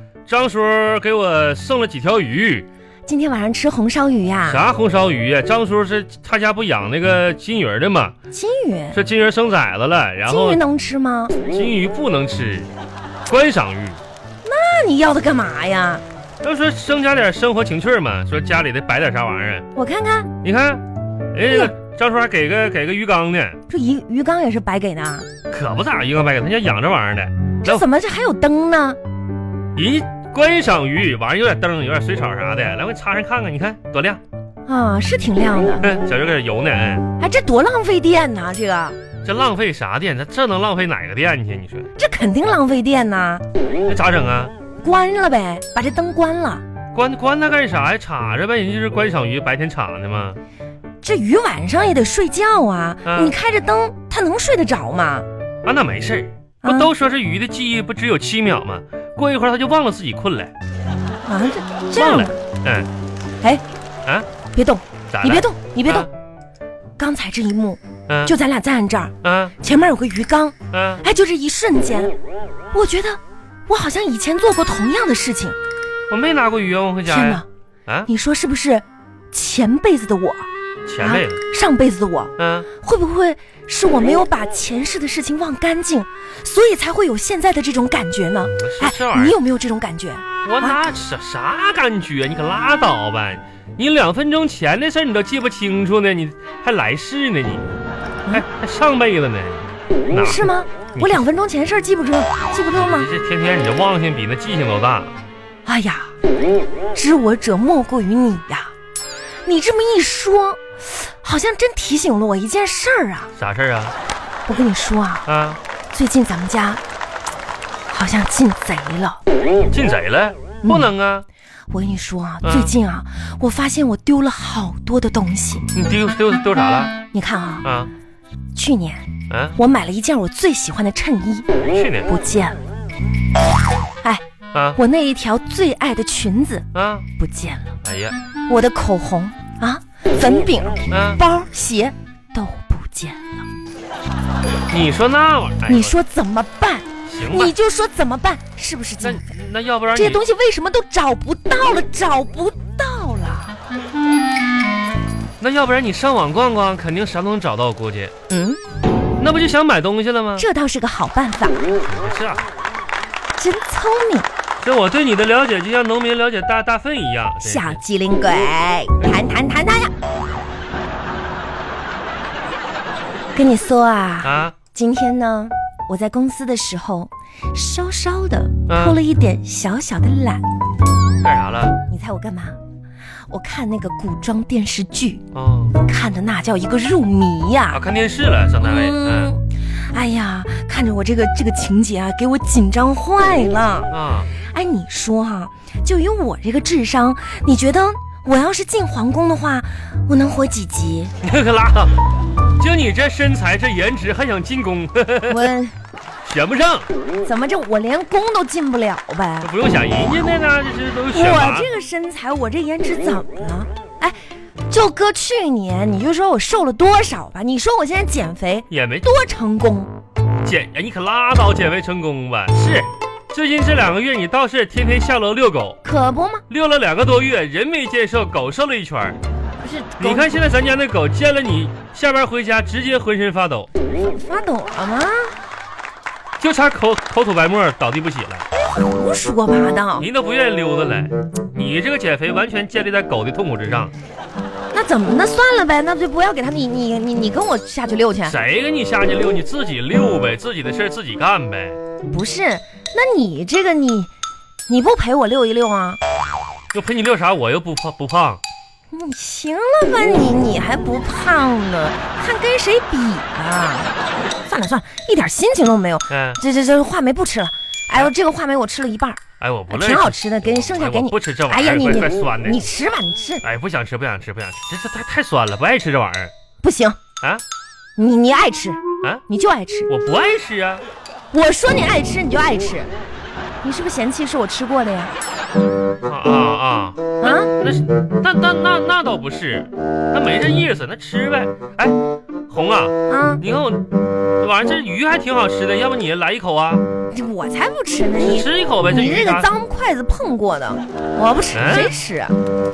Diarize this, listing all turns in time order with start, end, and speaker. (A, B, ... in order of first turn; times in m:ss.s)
0:00.3-0:02.6 A
0:03.1-0:04.6 B
0:04.4-0:08.1 A
0:08.3-0:09.0 B
0:08.9-0:10.6 A
0:10.2-0:11.4 B
0:11.4-0:12.7 A
0:13.3-0:14.0 A
0:14.4-0:16.0 B
0:16.4-0:19.6 A
0:19.7-0:20.3 B
0:20.4-0:23.6 A
0:21.5-0:21.7 B
0:23.7-0:25.3 B
0:25.5-0:27.8 A
0:27.6-0:29.0 B
0:29.7-0:34.2 A
0:34.6-0:36.0 B
0:35.8-0:37.1 A
0:37.2-0:39.0 B
0:39.2-0:41.9 A
0:42.0-0:43.4 B
0:43.8-0:44.5 A
0:44.8-0:46.6 B
0:46.9-0:50.4 A
0:51.0-0:55.2 B
0:53.0-0:53.3 A
0:55.6-1:00.5 A
0:56.6-0:56.9 B
1:01.2-1:02.4 B
1:01.9-1:02.9 A
1:04.5-1:06.1 B
1:05.1-1:06.1 A
1:07.0-1:12.1 B
1:08.1-1:08.3 A
1:09.2-1:09.6 A
1:10.7-1:11.0 A
1:12.7-1:15.6 B
1:16.1-1:18.1 A
1:17.0-1:17.4 B
1:18.1-1:20.5 B
1:20.9-1:21.4 A
1:21.0-1:30.8 B
1:22.4-1:22.7 A
1:28.5-1:29.4 A
1:30.4-1:37.7 A
1:38.3-1:41.2 A
1:40.1-1:43.1 B
1:42.8-1:45.1 A
1:45.6-1:46.1 B
1:46.9-1:48.7 B
1:49.4-1:53.3 B
1:53.4-1:53.9 A
1:54.5-1:55.2 B
1:55.3-1:55.6 A
1:55.9-1:56.8 B
1:57.9-1:59.2 B
1:59.7-2:01.3 A
2:00.6-2:00.9 B
2:01.7-2:05.7 B
2:02.4-2:02.7 A
2:05.7-2:07.0 A
2:07.1-2:07.6 B
2:07.6-2:07.9 A
2:08.5-2:11.5 B
2:09.3-2:09.6 A
2:11.7-2:12.1 A
2:12.0-2:12.6 B
2:14.5-2:14.8 A
2:14.7-2:17.8 B
2:16.7-2:17.0 A
2:17.8-2:18.2 A
2:18.5-2:23.5 B
2:20.9-2:21.2 A
2:24.7-2:26.0 A
2:25.7-2:29.3 B
2:27.0-2:27.5 A
2:29.0-2:30.2 A
2:29.9-2:33.5 B
2:35.4-2:38.1 A
2:38.3-2:38.6 B
2:39.2-2:40.4 A
2:40.4-2:41.6 B
2:41.8-2:42.5 A
2:43.4-2:44.3 B
2:44.6-2:47.8 A
2:47.4-2:49.9 B
2:53.3-3:00.4 B
2:54.2-2:54.6 A
2:58.7-2:59.0 A
3:01.2-3:01.8 A
3:01.9-3:02.6 B
3:03.3-3:05.2 B
3:05.3-3:05.8 A
3:05.8-3:07.8 B
3:07.7-3:09.3 A
3:08.6-3:21.1 B
3:13.9-3:14.3 A
3:21.2-3:21.9 A
3:22.6-3:25.5 A
3:25.3-3:25.7 B
3:26.2-3:26.9 A
3:27.2-3:29.5 B
3:29.4-3:31.7 A
3:31.1-3:34.2 B
3:34.7-3:39.9 B
3:38.7-3:39.1 A
3:40.4-3:45.8 A
3:45.8-3:46.4 B
3:46.5-3:49.2 A
3:49.6-3:50.3 B
3:50.0-3:53.7 A
3:53.9-3:55.3 B
3:56.4-3:58.4 A
3:58.6-4:00.1 B
4:00.0-4:03.9 A
4:04.7-4:08.4 B
4:08.2-4:11.8 A
4:12.0-4:14.1 B
4:14.7-4:16.0 B
4:16.7-4:18.4 A
4:18.9-4:33.4 B
4:26.1-4:26.4 A
4:29.4-4:32.7 A
4:33.4-4:36.3 A
4:36.6-4:37.0 B
4:38.0-4:39.9 B
4:39.9-4:40.8 A
4:41.3-4:42.9 B
4:43.6-4:45.1 B
4:46.0-4:52.0 A
4:47.2-4:47.5 B
4:52.5-4:56.8 A
4:53.1-4:53.4 B
4:57.1-5:02.4 B
4:58.2-4:59.5 A
5:01.5-5:01.9 A